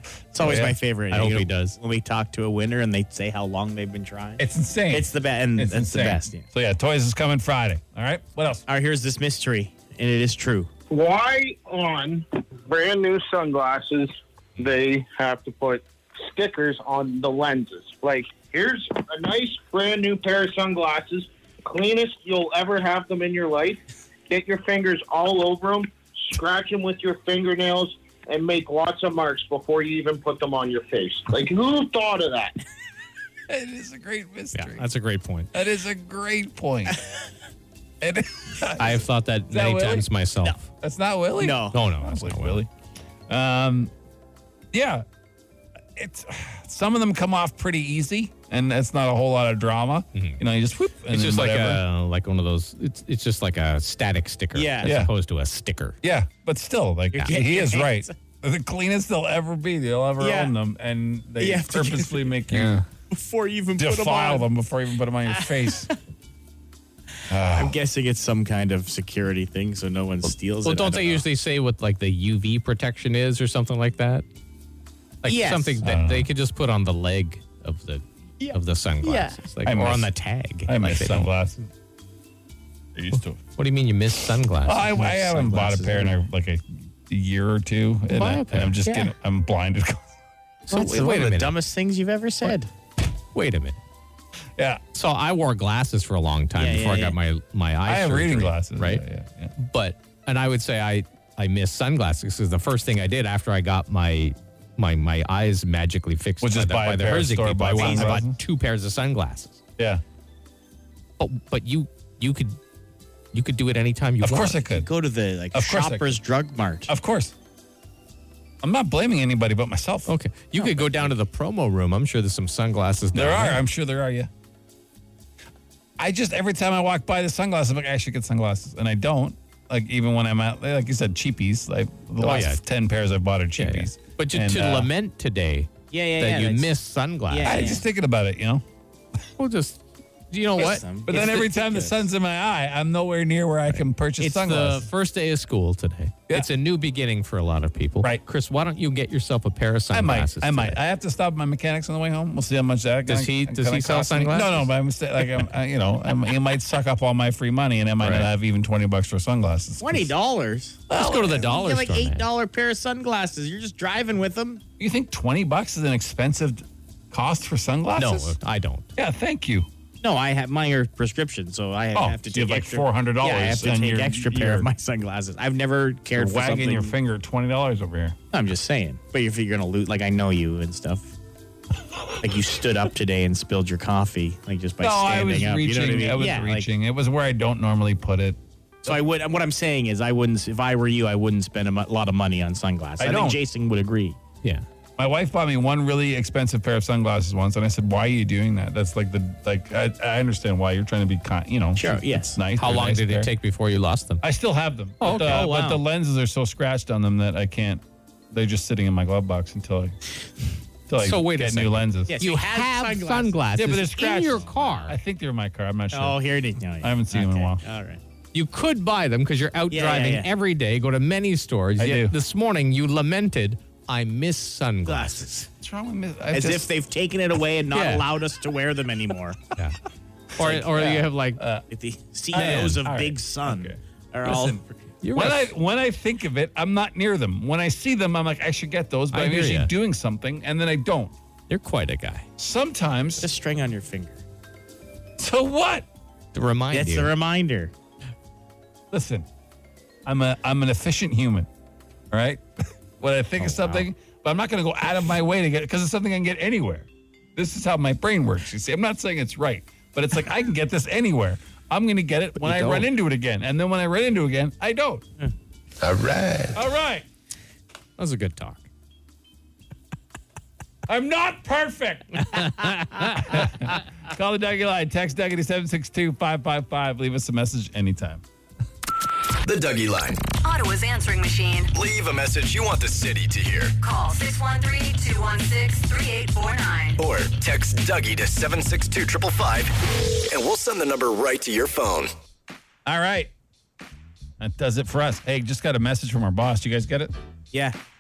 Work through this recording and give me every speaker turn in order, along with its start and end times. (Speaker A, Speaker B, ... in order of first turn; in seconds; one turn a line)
Speaker A: 0.3-6.5
Speaker B: 0.4-0.8
Speaker C: 1.1-1.8
Speaker B: 4.4-8.6
Speaker A: 8.7-10.7
Speaker D: 10.9-32.6
Speaker B: 33.5-34.9
Speaker C: 34.5-35.5
Speaker B: 35.5-37.0
Speaker B: 38.0-40.1
Speaker C: 38.8-40.6
Speaker B: 40.8-42.7
Speaker A: 41.4-41.8
Speaker C: 41.7-42.6
Speaker B: 43.3-43.9
Speaker B: 44.7-45.0
Speaker B: 46.0-51.8
Speaker C: 50.1-50.4
Speaker C: 51.1-56.0
Speaker A: 54.5-55.0
Speaker B: 54.8-55.1
Speaker B: 56.0-62.9
Speaker A: 57.1-58.1
Speaker A: 60.2-60.5
Speaker A: 61.4-62.4
Speaker C: 62.5-62.8
Speaker A: 63.1-64.5
Speaker B: 63.8-65.9
Speaker A: 65.3-66.0
Speaker B: 67.3-67.8
Speaker A: 67.5-71.2
Speaker C: 70.6-74.3
Speaker C: 75.2-81.3
Speaker A: 75.2-75.8
Speaker B: 75.8-76.3
Speaker A: 78.4-79.4
Speaker B: 79.6-80.1
Speaker B: 80.7-81.7
Speaker B: 83.0-83.4
Speaker C: 83.6-85.0
Speaker B: 84.7-90.2
Speaker A: 84.9-86.2
Speaker C: 88.1-88.8
Speaker A: 90.7-92.7
Speaker C: 90.7-91.6
Speaker C: 93.3-93.8
Speaker B: 94.6-94.8
Speaker C: 94.9-99.0
Speaker A: 96.5-97.2
Speaker B: 97.8-99.5
Speaker C: 99.6-109.6
Speaker B: 106.4-108.4
Speaker A: 107.8-108.2
Speaker C: 111.2-112.6
Speaker C: 113.3-114.6
Speaker B: 114.2-114.9
Speaker A: 114.7-116.9
Speaker B: 115.5-116.2
Speaker B: 116.9-117.3
Speaker B: 118.6-120.1
Speaker C: 120.1-123.6
Speaker B: 123.1-124.3
Speaker B: 126.0-134.9
Speaker C: 132.2-132.6
Speaker C: 133.6-137.8
Speaker A: 135.9-136.7
Speaker A: 137.3-137.8
Speaker B: 137.4-138.6
Speaker C: 139.4-141.8
Speaker A: 140.6-141.9
Speaker B: 141.1-144.9
Speaker C: 143.7-150.8
Speaker B: 149.9-160.1
Speaker C: 153.1-154.7
Speaker C: 158.0-158.3
Speaker A: 159.8-164.6
Speaker B: 160.9-161.4
Speaker C: 160.9-162.3
Speaker B: 164.8-168.4
Speaker C: 168.0-168.9
Speaker B: 168.9-169.7
Speaker A: 170.0-176.9
Speaker B: 171.9-174.7
Speaker B: 176.1-178.2
Speaker A: 178.3-181.1
Speaker A: 182.2-186.7
Speaker B: 184.8-189.0
Speaker A: 188.8-194.2
Speaker B: 193.0-193.4
Speaker B: 195.0-203.3
Speaker A: 201.8-202.4
Speaker C: 202.5-204.2
Speaker B: 204.2-210.0
Speaker C: 205.0-205.8
Speaker B: 210.9-212.3
Speaker C: 211.0-215.0
Speaker A: 212.1-213.6
Speaker B: 213.6-216.2
Speaker A: 215.9-218.0
Speaker B: 216.8-217.6
Speaker C: 218.3-225.4
Speaker A: 219.7-220.3
Speaker B: 221.8-222.2
Speaker A: 224.9-225.5
Speaker B: 225.6-226.7
Speaker A: 226.3-229.4
Speaker C: 227.7-228.1
Speaker C: 230.4-231.4
Speaker B: 230.4-231.7
Speaker A: 230.4-230.9
Speaker A: 231.7-234.6
Speaker B: 232.3-241.1
Speaker C: 232.3-232.8
Speaker C: 235.0-235.5
Speaker C: 239.1-239.7
Speaker C: 241.5-242.3
Speaker B: 242.4-243.3
Speaker A: 243.2-244.2
Speaker B: 245.2-245.9
Speaker C: 246.3-247.1
Speaker A: 246.7-247.7
Speaker B: 248.9-249.3
Speaker B: 250.1-251.5
Speaker B: 252.1-252.4
Speaker B: 253.0-265.0
Speaker C: 262.4-262.9
Speaker E: 266.1-266.5
Speaker B: 266.5-267.1
Speaker C: 268.0-268.7
Speaker B: 270.9-272.5
Speaker C: 272.3-273.4
Speaker B: 273.2-278.2
Speaker E: 279.4-280.2
Speaker F: 280.4-281.7
Speaker E: 281.8-283.8
Speaker F: 283.8-287.0
Speaker E: 287.0-289.7
Speaker E: 290.3-292.1
Speaker B: 292.9-293.3
Speaker B: 294.4-297.1
Speaker A: 297.5-297.8